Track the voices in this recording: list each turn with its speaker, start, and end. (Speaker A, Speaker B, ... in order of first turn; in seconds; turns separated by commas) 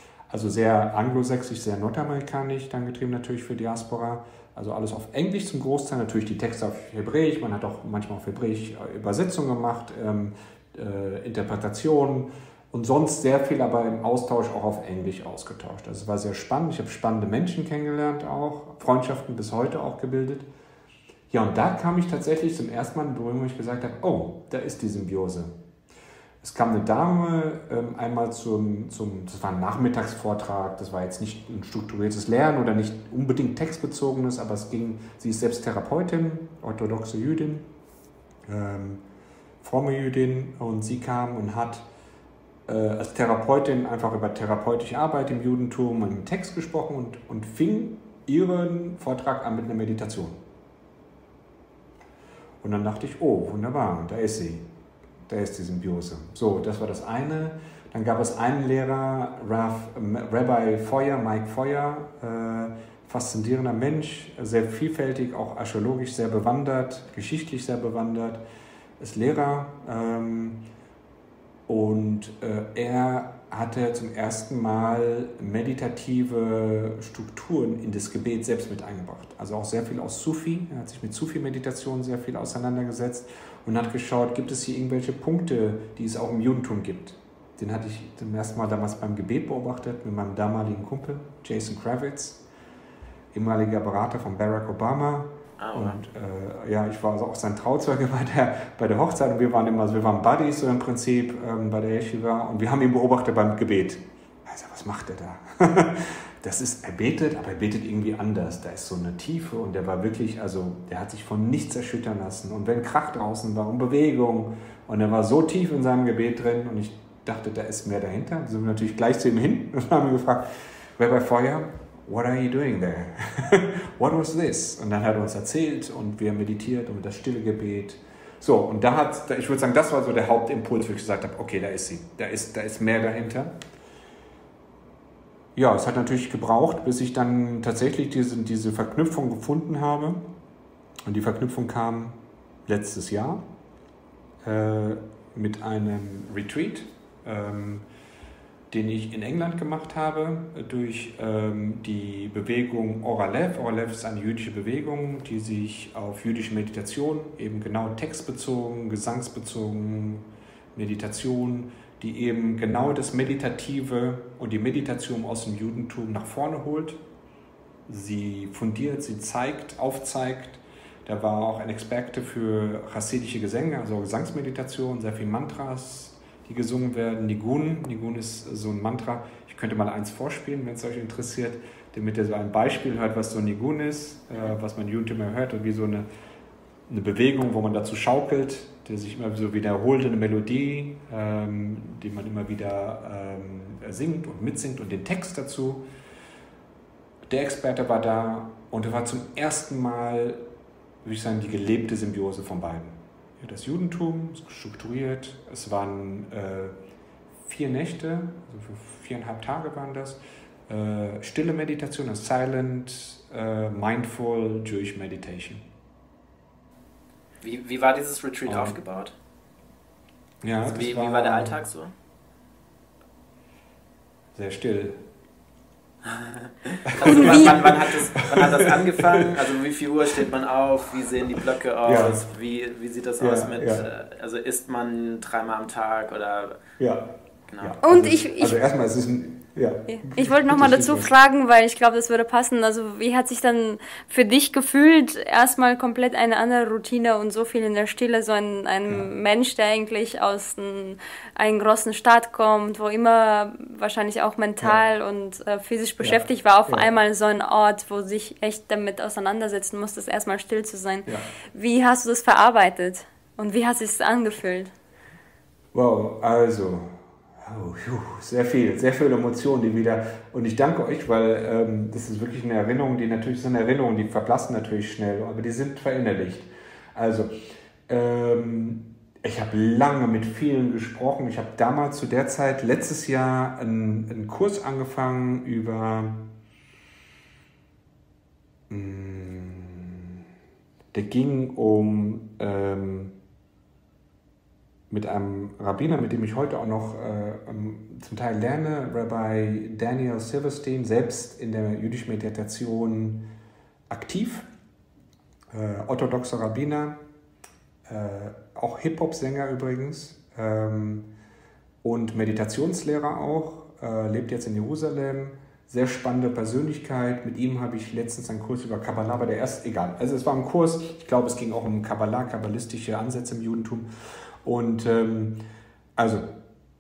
Speaker A: 0.3-20.5, Speaker A: 21.3-25.5, Speaker A: 26.4-37.7, Speaker A: 38.5-39.0, Speaker A: 39.6-41.9, Speaker A: 42.7-50.4, Speaker A: 52.6-54.7, Speaker A: 55.3-68.4, Speaker A: 69.0-70.7, Speaker A: 71.7-92.4, Speaker A: 93.3-133.6, Speaker B: 95.6-96.0, Speaker A: 135.6-140.3, Speaker A: 141.1-143.4, Speaker A: 144.4-147.9, Speaker A: 148.7-167.0, Speaker A: 167.9-186.1, Speaker A: 186.9-195.9, Speaker A: 197.3-200.5, Speaker A: 201.0-206.8, Speaker A: 207.4-215.7, Speaker B: 217.4-219.2, Speaker A: 218.5-218.8, Speaker A: 220.4-221.6, Speaker B: 220.6-221.9, Speaker A: 224.3-225.0, Speaker B: 226.1-236.6, Speaker A: 226.9-229.4, Speaker C: 227.1-227.7, Speaker A: 231.8-232.3, Speaker A: 233.2-233.9, Speaker A: 236.8-241.1, Speaker B: 237.5-237.8, Speaker C: 237.8-238.6, Speaker C: 239.9-264.7, Speaker A: 256.0-256.9, Speaker A: 265.7-277.3, Speaker A: 277.9-286.3, Speaker A: 288.7-290.2, Speaker A: 290.9-293.2, Speaker A: 294.9-303.3, Speaker A: 303.9-304.5, Speaker A: 305.5-307.0, Speaker A: 307.9-311.1, Speaker A: 311.8-323.9, Speaker A: 324.4-325.4, Speaker A: 326.0-326.3